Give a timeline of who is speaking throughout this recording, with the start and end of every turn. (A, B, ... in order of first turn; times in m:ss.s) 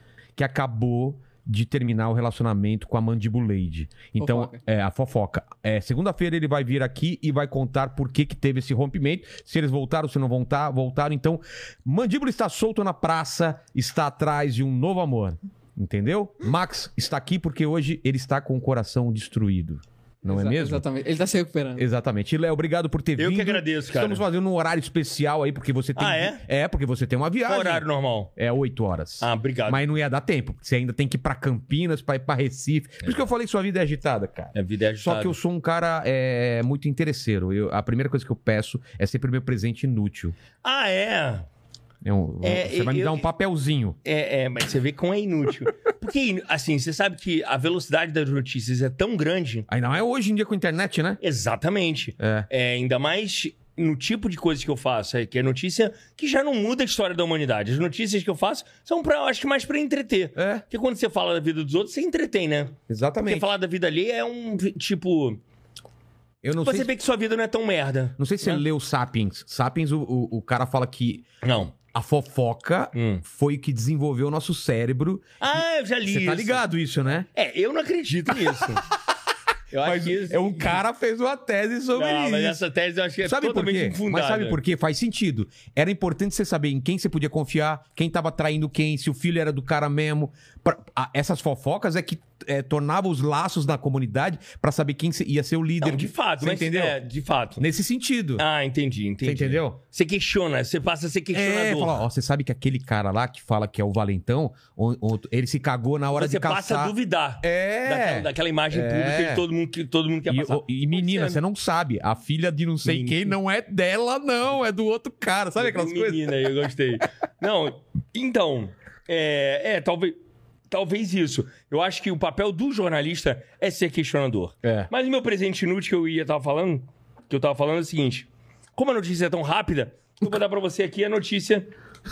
0:00.4-0:20.8 A
0:04.2-0:04.6 B
0:20.2-0:21.9 B
0:21.8-0:40.4 A
0:23.2-0:24.2 C
0:26.0-0:26.4 C
0:27.5-0:28.3 C
0:29.2-0:29.8 C
0:34.5-0:35.4 C
0:40.6-0:41.5 C
0:42.0-0:44.0 A
0:42.4-0:43.3 C
0:44.0-0:49.7 C
0:49.7-0:51.2 A
0:51.2-1:05.4 C
0:52.2-0:52.5 A
1:00.4-1:00.6 A
1:02.9-1:03.5 A
1:06.4-1:06.9 A
1:06.6-1:08.6 C
1:08.2-1:11.3 A
1:11.4-1:11.8 C
1:11.9-1:17.3 A
1:12.9-1:13.2 C
1:15.4-1:16.6 C
1:17.3-1:18.9 C
1:19.7-1:20.8 C
1:19.8-1:22.6 A
1:21.9-1:24.6 C
1:23.2-1:37.0 A
1:35.8-1:37.6 C
1:37.6-1:38.4 A
1:38.4-1:42.0 C
1:39.2-1:39.8 A
1:41.3-1:49.4 A
1:46.1-1:51.4 C
1:50.3-1:56.3 A
1:52.8-1:53.4 C
1:55.6-2:00.2 C
2:00.7-2:11.7 C
2:04.6-2:04.9 A